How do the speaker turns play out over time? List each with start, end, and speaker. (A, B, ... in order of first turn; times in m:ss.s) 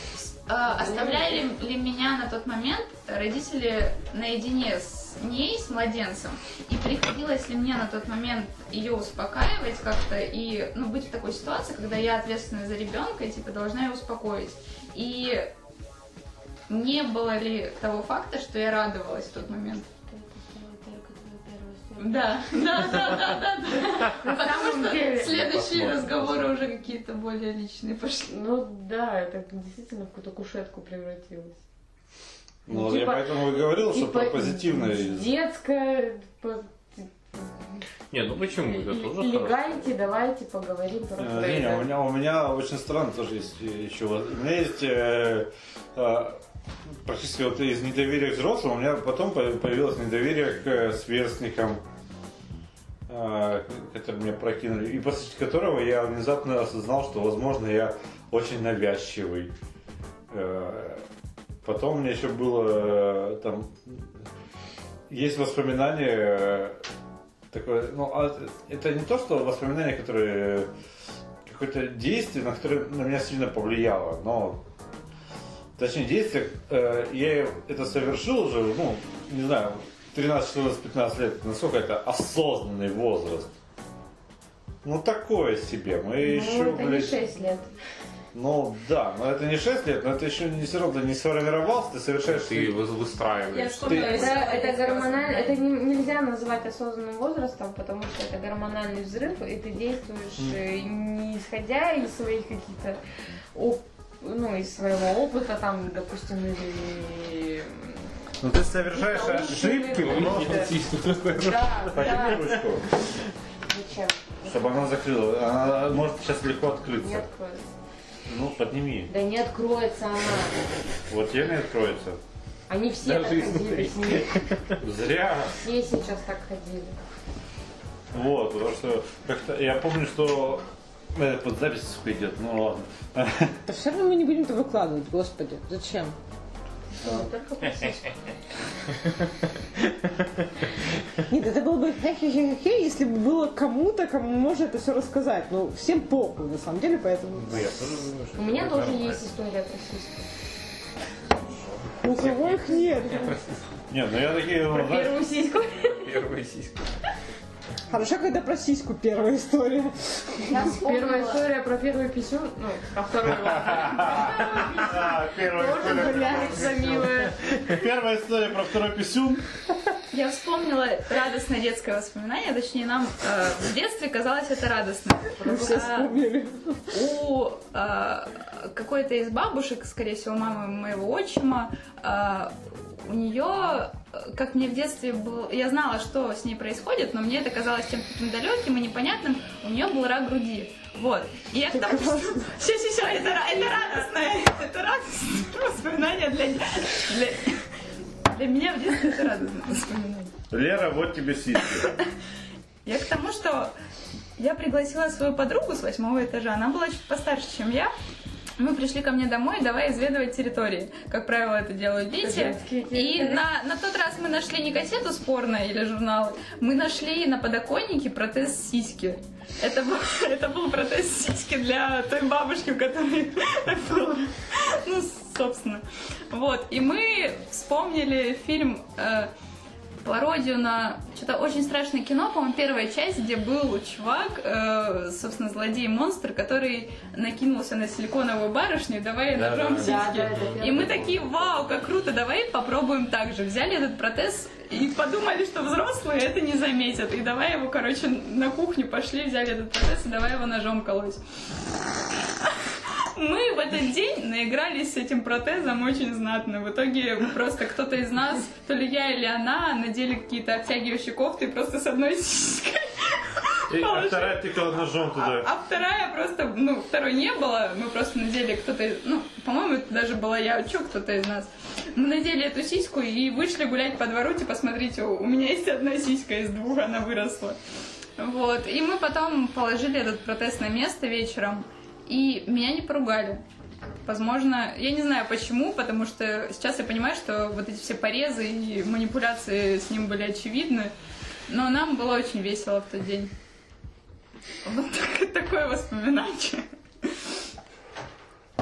0:00.2-0:15.5 A
0:00.6-0:01.4 B
0:16.7-0:19.9 A
0:20.0-0:23.2 B
0:22.0-0:28.3 A
0:24.2-0:25.3 B
0:25.2-0:26.5 C
0:28.3-0:31.6 B
0:32.7-0:35.3 D
0:32.7-0:37.8 B
0:38.1-0:39.9 C
0:38.5-0:41.9 B
0:41.2-0:46.4 D
0:47.0-0:51.8 D
0:53.1-0:59.5 D
1:00.3-1:01.0 D
1:01.6-1:04.2 D
1:05.1-1:06.8 D
1:07.5-1:10.7 D
1:11.4-1:14.6 D
1:15.8-1:23.5 D
1:24.8-1:27.2 D
1:26.2-1:27.7 B
1:28.3-1:32.8 D
1:32.3-1:34.4 C
1:33.5-1:35.6 A
1:33.8-1:34.2 D
1:34.0-1:43.0 B
1:43.5-1:48.1 B
1:48.4-1:50.8 D
1:48.9-1:52.7 B
1:50.0-1:51.9 C
1:51.9-1:52.8 D
1:53.6-1:54.8 B
1:54.4-1:57.3 D
1:57.0-1:57.7 B
1:58.3-1:59.1 D
1:59.1-2:00.6 B
2:01.1-2:02.2 D
2:02.7-2:04.4 B
2:03.0-2:04.8 C
2:04.8-2:05.6 D
2:05.5-2:07.0 B
2:08.1-2:13.6 D
2:13.7-2:16.2 E
2:16.9-2:18.1 B
2:21.3-2:27.8 E
2:27.3-2:29.3 C
2:28.3-2:30.3 B
2:32.0-2:33.3 E
2:32.0-2:33.6 C
2:33.9-2:35.2 D
2:34.7-2:36.0 B
2:35.9-2:37.0 C
2:37.9-2:40.8 E
2:40.4-2:41.4 A
2:40.5-2:47.4 B
2:43.5-2:49.5 D
2:45.7-2:46.9 E
2:50.1-2:56.1 A
2:55.4-2:56.9 E
2:56.9-3:17.6 A
3:11.7-3:12.5 E
3:18.3-3:20.3 A
3:20.5-3:21.9 D
3:22.8-3:23.7 A
3:24.4-3:27.9 A
3:28.6-3:49.3 A
3:32.2-3:33.4 B
3:50.0-4:11.2 A
3:59.3-4:01.4 C
3:59.8-4:01.0 B
4:12.4-4:24.5 A
4:23.7-4:25.5 D
4:25.2-4:37.6 A
4:38.2-4:43.4 A
4:44.0-4:50.9 A
4:51.5-4:53.3 A
4:54.6-4:57.3 A